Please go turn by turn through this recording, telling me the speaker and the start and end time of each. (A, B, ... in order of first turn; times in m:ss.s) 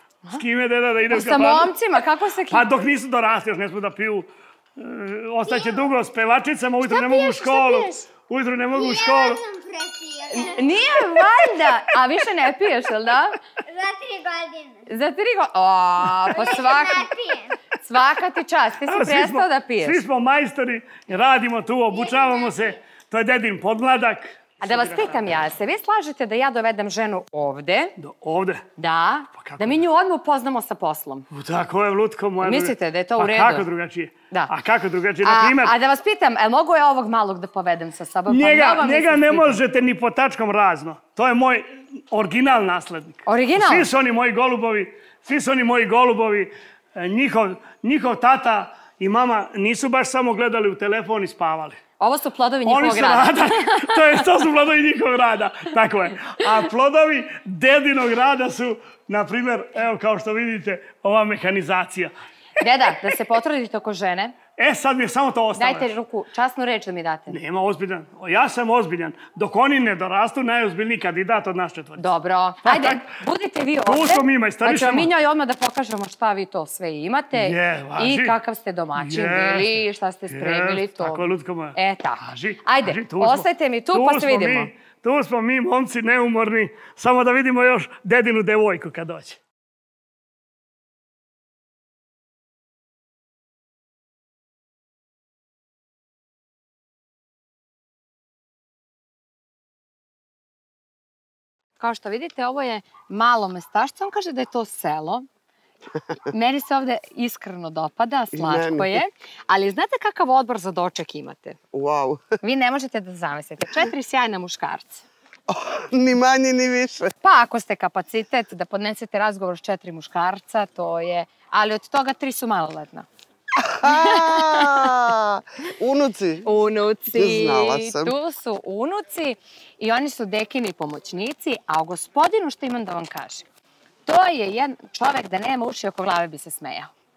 0:00.3-0:01.7 A
0:01.1-0:02.6 B
0:02.5-0:09.4 A
0:05.5-0:05.8 C
0:06.8-0:08.0 C
0:08.7-0:11.0 C
0:10.3-0:13.4 B
0:13.7-0:14.9 C
0:14.9-0:17.1 B
0:16.3-0:17.6 C
0:17.8-0:20.0 B
0:18.9-0:25.2 A
0:21.9-0:22.6 C
0:24.6-0:27.9 B
0:28.0-0:28.6 A
0:28.8-0:31.3 B
0:29.4-0:29.8 A
0:31.3-0:35.7 A
0:32.4-0:33.7 B
0:35.2-0:39.6 B
0:38.3-0:51.8 A
0:43.2-0:43.9 B
0:52.0-0:54.2 B
0:52.6-1:02.1 A
1:02.6-1:04.3 B
1:04.6-1:05.9 A
1:05.5-1:07.4 B
1:07.3-1:12.0 A
1:12.0-1:24.7 B
1:12.6-1:13.0 A
1:13.8-1:15.1 A
1:17.3-1:18.4 A
1:19.0-1:19.8 A
1:20.3-1:29.4 A
1:41.8-1:45.2 B
1:46.3-1:51.6 B
1:48.3-1:49.0 D
1:51.7-1:52.2 D
1:52.4-1:55.0 B
1:55.5-1:57.1 D
1:57.2-2:03.0 B
2:03.6-2:06.4 D
2:03.8-2:04.9 B
2:06.4-2:13.5 B
2:07.1-2:08.1 D
2:14.0-2:16.9 B